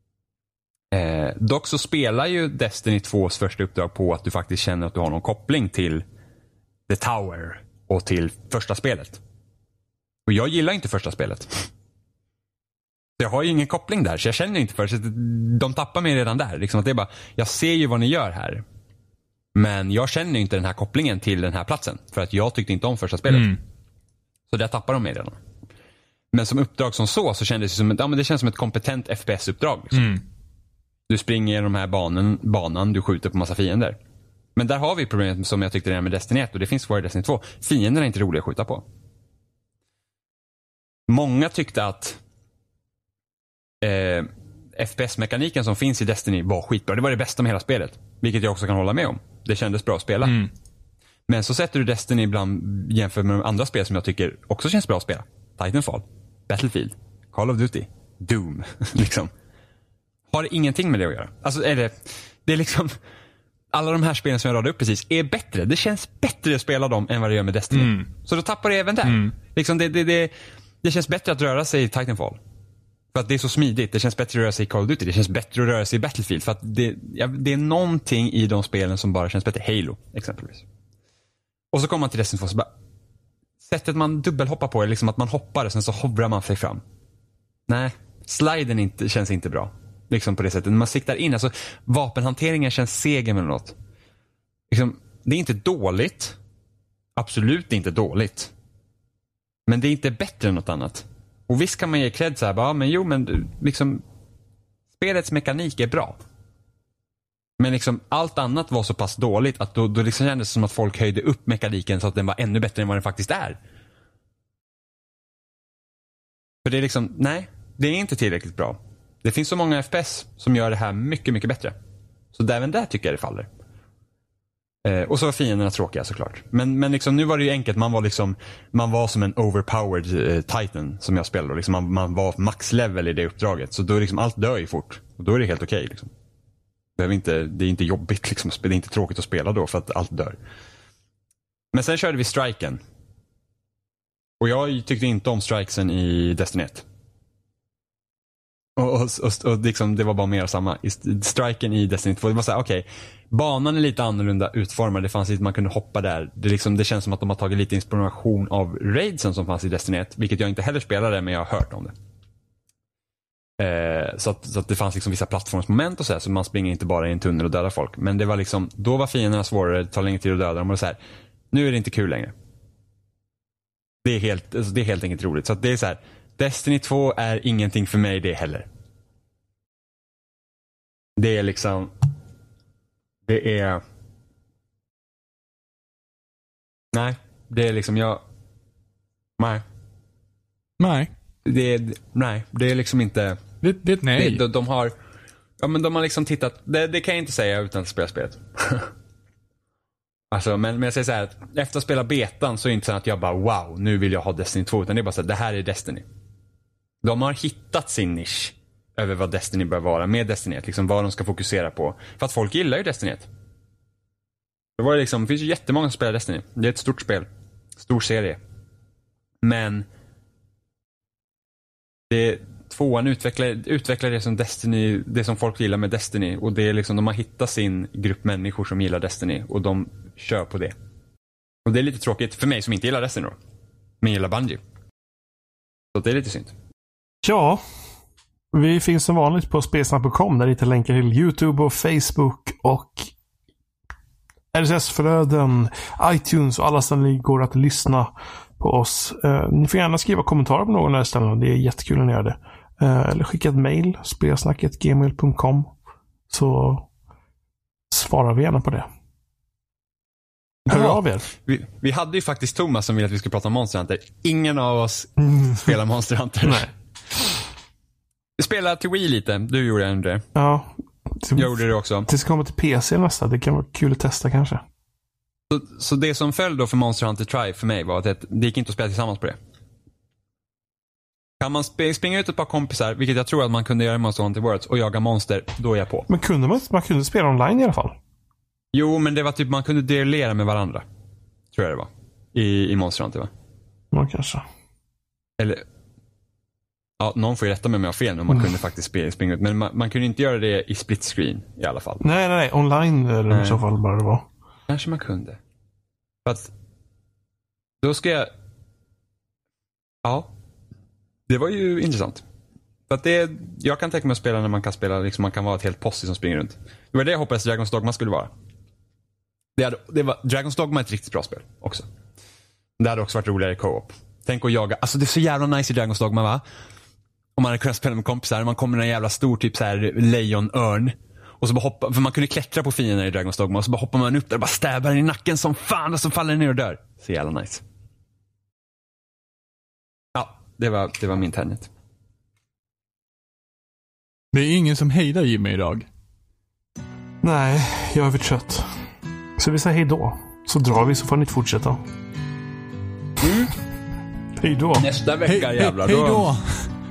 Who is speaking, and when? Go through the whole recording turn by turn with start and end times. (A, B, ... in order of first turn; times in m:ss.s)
0:00.9-0:06.0 A
0:06.9-0:09.2 A
0:10.3-0:11.7 A
0:13.2-0:18.6 A
0:19.5-0:23.5 A
0:23.3-0:23.6 B
0:24.5-0:25.4 A
0:26.3-0:30.2 A
0:29.9-0:30.2 B
0:31.1-0:34.0 A
0:34.6-0:38.8 A
0:41.1-0:42.2 A
0:43.8-0:50.4 A
0:50.2-0:50.5 B
0:51.3-0:59.3 A
1:00.3-1:02.9 A
1:03.7-1:10.3 A
1:07.7-1:08.1 B
1:09.0-1:09.3 B
1:10.8-1:12.4 A
1:13.1-1:20.6 A
1:21.7-1:22.7 A
1:23.6-1:26.8 A
1:27.7-1:33.7 A
1:34.7-1:36.4 A
1:37.2-1:38.5 A
1:39.7-1:44.0 A
1:45.0-1:46.2 A
1:47.6-1:53.6 A
1:56.6-2:01.7 A
2:02.3-2:03.5 A
2:04.8-2:16.1 A
2:17.0-2:20.4 A
2:21.7-2:22.8 A
2:24.4-2:26.8 A
2:28.8-2:41.9 A
2:43.6-2:51.0 A
2:51.5-2:52.3 A
2:54.0-2:58.7 A
3:01.2-3:01.9 A
3:03.2-3:03.8 A
3:06.9-3:08.2 A
3:10.8-3:11.1 B
3:11.4-3:13.4 A
3:13.6-3:14.4 B
3:14.1-3:14.9 A
3:15.6-3:18.9 A
3:20.3-3:26.0 A
3:27.0-3:33.3 A
3:34.8-3:38.4 A
3:39.4-3:39.8 A
3:42.1-3:50.7 A
3:51.6-3:53.4 A
3:54.0-3:54.6 A
3:55.9-3:56.5 A
3:57.2-3:57.6 C
3:58.5-4:03.1 C
4:04.5-4:15.7 C
4:16.3-4:16.9 C
4:17.9-4:18.9 C
4:20.7-4:21.2 C
4:20.7-4:26.7 A
4:25.4-4:25.7 C
4:26.4-4:26.7 C
4:28.4-4:30.2 A
4:30.3-4:34.6 C
4:31.4-4:32.1 A
4:35.5-4:39.4 A
4:41.4-4:46.1 A
4:46.1-4:48.0 C
4:48.7-4:50.8 A
4:51.5-4:53.3 A
4:53.9-4:54.4 C
4:55.4-4:55.6 A
4:57.0-5:02.0 A
5:02.0-5:04.3 C
5:03.3-5:03.6 A
5:04.7-5:05.4 A
5:06.2-5:06.5 A
5:07.8-5:08.3 A
5:10.0-5:10.3 A
5:11.3-5:12.2 A
5:12.9-5:18.3 A
5:19.6-5:21.8 A
5:22.8-5:26.4 A
5:27.4-5:37.6 A
5:40.1-5:41.7 A
5:44.3-5:45.9 B
5:47.2-5:48.8 C
5:49.4-5:51.8 C
5:53.2-5:53.5 A
5:54.4-5:54.9 C
5:54.8-5:56.3 A
5:55.2-5:56.7 B